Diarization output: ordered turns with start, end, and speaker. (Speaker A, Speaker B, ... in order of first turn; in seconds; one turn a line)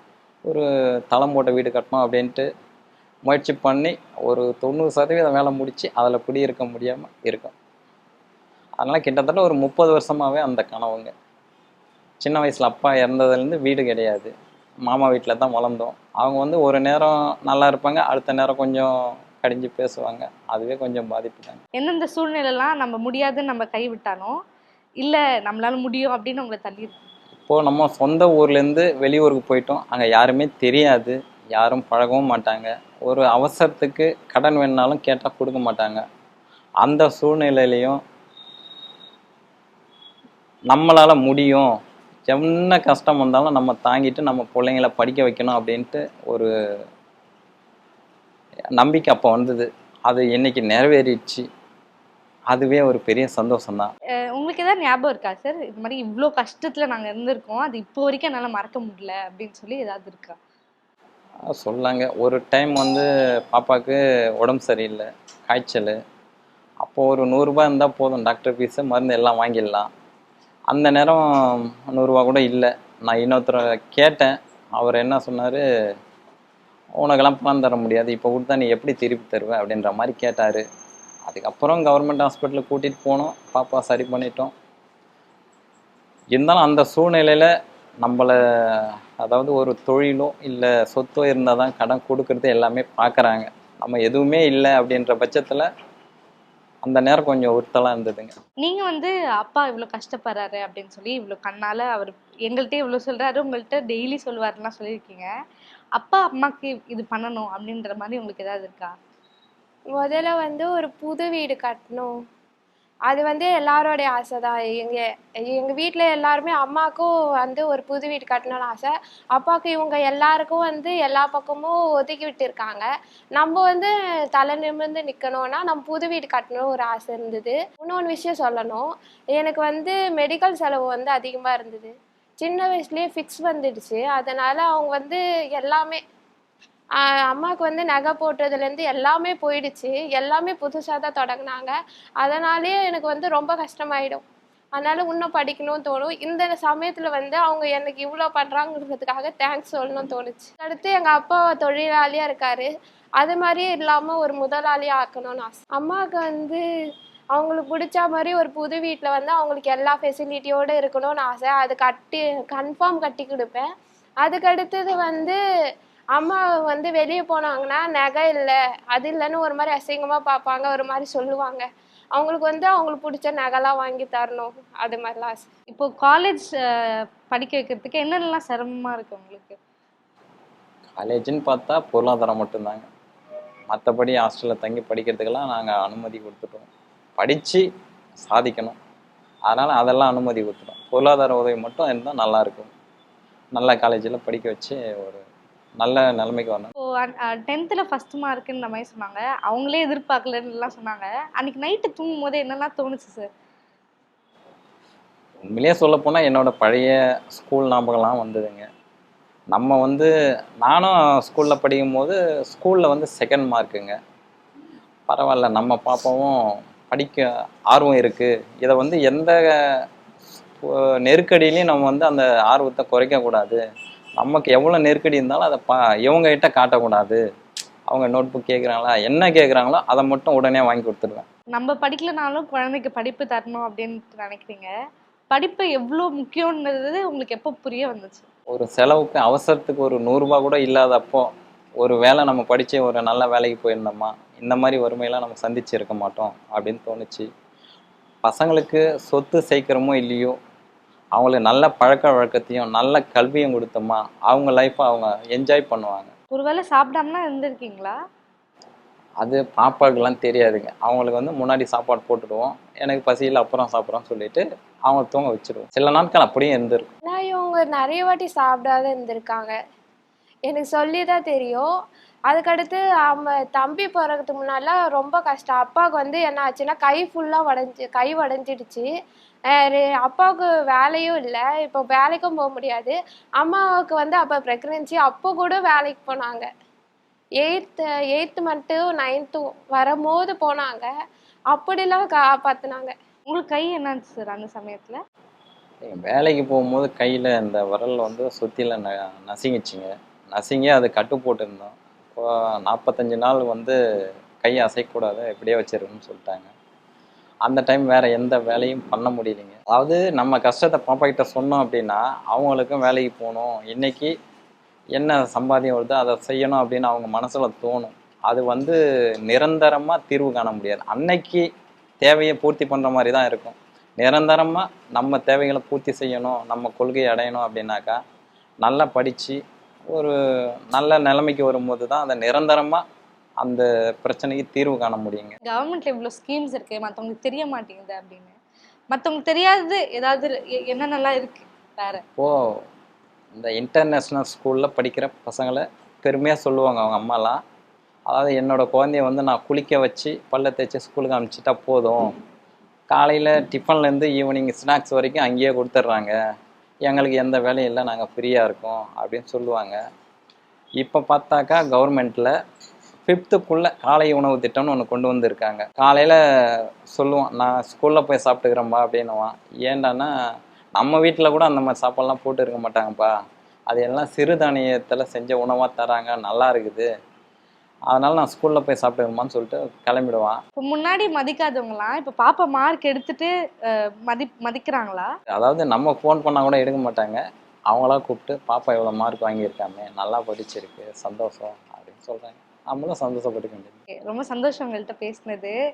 Speaker A: 0.5-2.5
Speaker A: 3.2-7.5
Speaker A: 8.8-11.1
Speaker A: 12.2-14.3
Speaker A: 14.8-21.6
Speaker B: 21.8-24.3
Speaker B: 25.0-27.0
Speaker A: 27.5-36.0
Speaker A: 36.8-38.0
Speaker A: 40.7-41.7
Speaker A: 42.3-46.5
Speaker A: 48.8-51.4
Speaker A: 52.5-53.9
Speaker B: 54.3-60.4
Speaker A: 61.5-66.0
Speaker A: 66.8-69.9
Speaker A: 70.7-75.6
Speaker A: 77.0-80.6
Speaker A: 81.2-84.5
Speaker A: 86.3-87.5
Speaker A: 88.0-95.7
Speaker A: 96.8-98.3
Speaker B: 98.6-105.3
Speaker B: 106.0-108.9
Speaker C: 109.9-112.1
Speaker C: 113.1-115.0
Speaker C: 115.5-128.8
Speaker C: 129.4-136.0
Speaker C: 137.0-144.2
Speaker C: 144.8-152.7
Speaker C: 153.2-156.6
Speaker C: 157.3-163.7
Speaker C: 164.2-165.4
Speaker C: 166.1-175.4
Speaker B: 175.7-176.5
Speaker B: 177.3-179.6
Speaker A: 180.9-182.9
Speaker A: 183.7-186.7
Speaker A: 187.2-187.6
Speaker A: 188.2-188.8
Speaker A: 189.5-192.7
Speaker A: 193.6-195.2
Speaker A: 195.8-196.7
Speaker B: 196.9-203.3
Speaker A: 205.4-208.7
Speaker A: 209.5-210.1
Speaker A: 210.6-213.9
Speaker A: 215.1-216.4
Speaker A: 216.9-219.8
Speaker A: 220.6-223.6
Speaker A: 224.2-227.2
Speaker A: 227.9-231.2
Speaker B: 231.5-234.7
Speaker B: 235.3-238.2
Speaker A: 238.5-241.3
Speaker A: 241.8-247.3
Speaker A: 248.2-250.3
Speaker A: 251.1-256.1
Speaker B: 256.3-257.9
Speaker A: 259.2-266.9
Speaker C: 267.0-269.5
Speaker C: 270.5-271.6
Speaker C: 272.3-278.9
Speaker C: 279.5-286.5
Speaker C: 287.4-290.9
Speaker C: 291.5-292.9
Speaker B: 293.3-295.0
Speaker A: 295.8-303.8
Speaker A: 304.4-306.5
Speaker A: 307.4-314.1
Speaker A: 314.9-321.4
Speaker A: 322.0-328.0
Speaker A: 328.6-329.4
Speaker A: 330.7-332.8
Speaker A: 333.4-335.4
Speaker B: 335.5-338.3
Speaker B: 338.9-342.0
Speaker A: 342.2-342.6
Speaker A: 343.4-347.4
Speaker A: 348.1-352.1
Speaker A: 352.9-356.1
Speaker A: 356.8-359.8
Speaker A: 360.8-362.3
Speaker A: 363.1-370.1
Speaker A: 370.8-373.1
Speaker A: 373.7-376.9
Speaker A: 377.9-380.4
Speaker B: 380.6-383.3
Speaker B: 384.1-385.1
Speaker A: 385.3-393.8
Speaker B: 394.1-395.5